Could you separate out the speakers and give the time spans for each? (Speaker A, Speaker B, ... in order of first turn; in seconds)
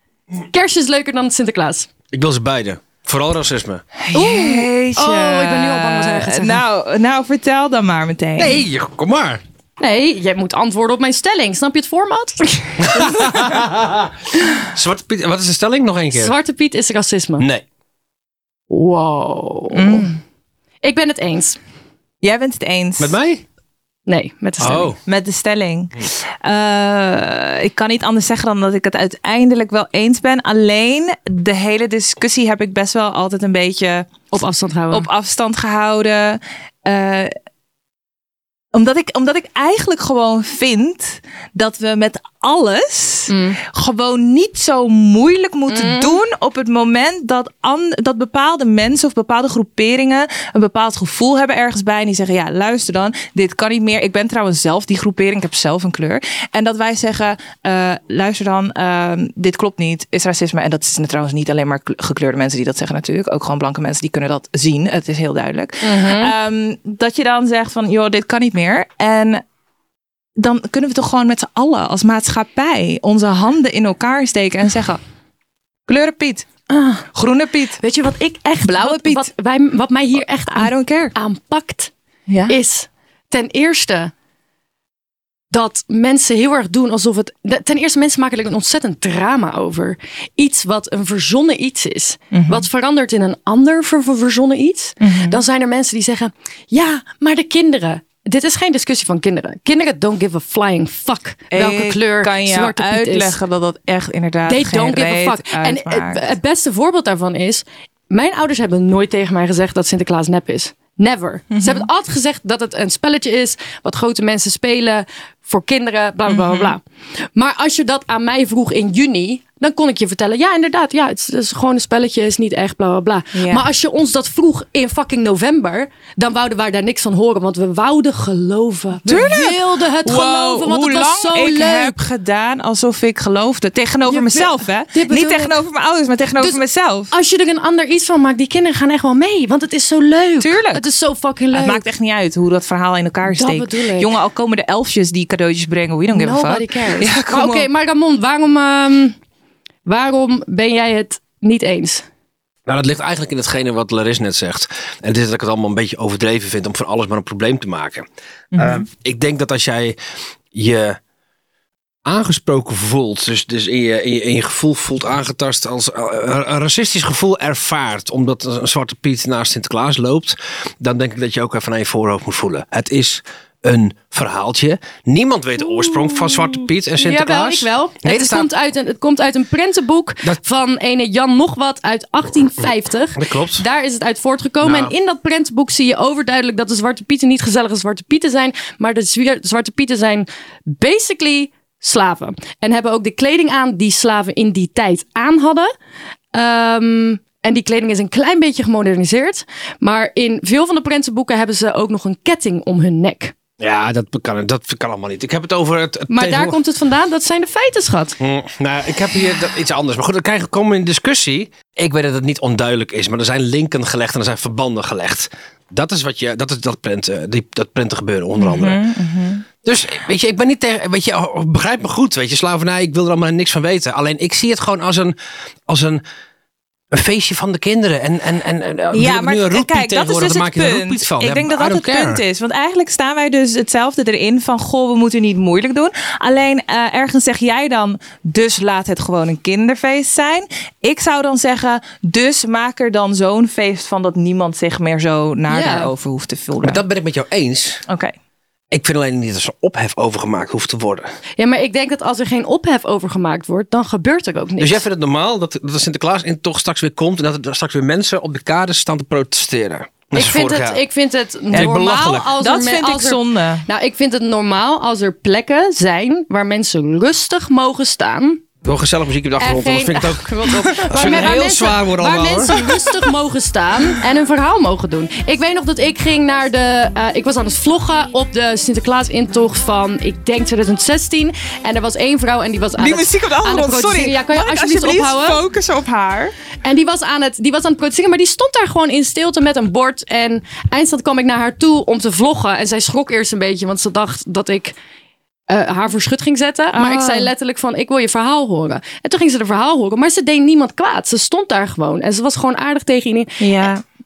Speaker A: 0.5-1.9, 4.1-6.6, 9.8-13.5, 16.1-17.5, 18.7-20.1, 20.8-21.6, 24.1-24.9, 34.3-35.1, 43.3-43.6, 45.7-46.2, 65.8-66.3, 77.8-81.9, 82.5-84.1, 85.5-103.4, 104.5-116.8, 117.3-132.0, 134.1-135.6, 137.1-141.8, 143.3-144.1, 146.1-149.2, 149.9-152.1, 177.0-195.7, 196.3-203.3, 206.1-208.2, 245.5-245.9, 251.4-254.8, 260.1-268.4, 269.4-285.4, 286.6-294.8, 295.5-303.7
Speaker B: 2.1-3.8, 8.4-9.4, 12.8-16.4, 17.4-17.6, 23.0-23.4, 24.6-25.0, 152.7-158.1, 158.6-160.0, 160.5-161.0, 162.1-178.5, 183.2-183.7, 184.6-184.9, 203.6-206.6, 208.2-218.8, 219.6-225.2, 225.7-226.0, 226.9-232.2, 246.6-247.8, 248.7-251.1, 254.6-260.8, 261.5-262.3, 268.6-272.6
Speaker C: 4.0-8.6, 19.7-20.2, 22.2-23.2, 25.1-34.1, 34.9-37.3, 38.7-69.4, 70.4-75.0, 75.9-77.8, 78.7-79.3, 80.5-81.2, 82.3-82.6, 92.3-92.7, 95.0-95.4, 101.5-106.3, 111.5-111.9, 116.3-116.8, 123.3-123.6, 129.1-137.1, 140.4-140.8, 141.5-147.7, 158.5-158.9, 218.4-219.4, 228.9-246.8, 247.9-248.1, 262.4-263.6, 270.7-271.3, 282.8-286.3, 296.7-297.3, 303.4-303.8